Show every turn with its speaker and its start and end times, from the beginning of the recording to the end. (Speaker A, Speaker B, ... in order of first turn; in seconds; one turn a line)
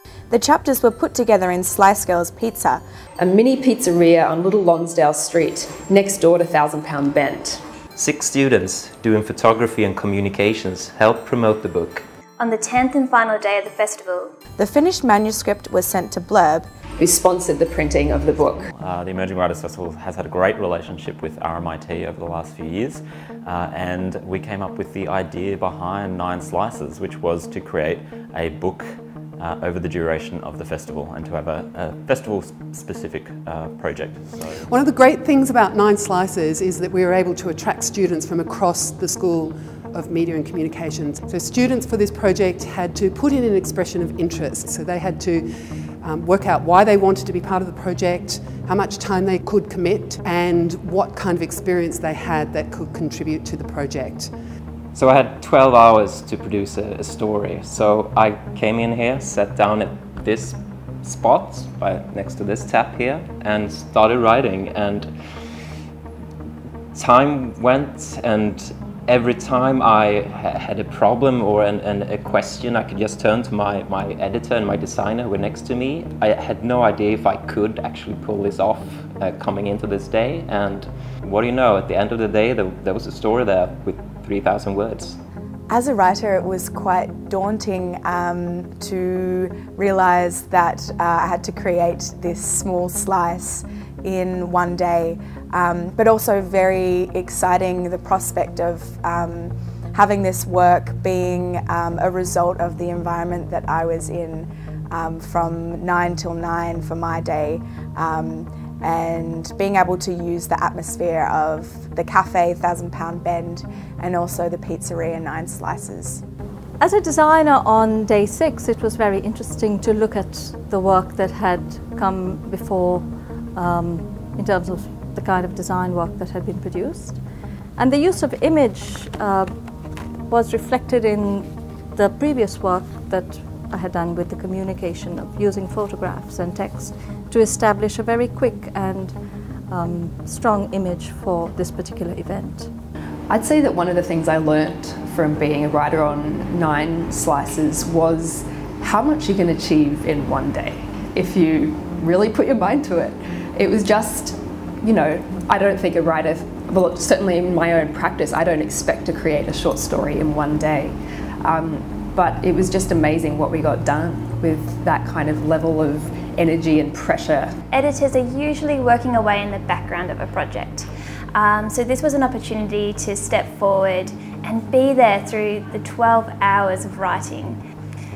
Speaker A: 0.3-2.8
Speaker B: 3.2-7.6
Speaker C: 8.0-12.0
Speaker D: 12.4-14.3
Speaker A: 14.6-16.7
Speaker B: 17.0-18.7
Speaker E: 18.7-34.6
Speaker F: 34.6-45.5
Speaker F: 46.0-54.3
Speaker C: 54.9-65.1
Speaker C: 66.9-85.2
Speaker A: 85.7-116.2
Speaker G: 116.8-127.2
Speaker G: 127.8-129.5
Speaker G: 130.3-139.1
Speaker G: 139.7-142.7
Speaker B: 143.3-167.5
Speaker D: 167.7-177.6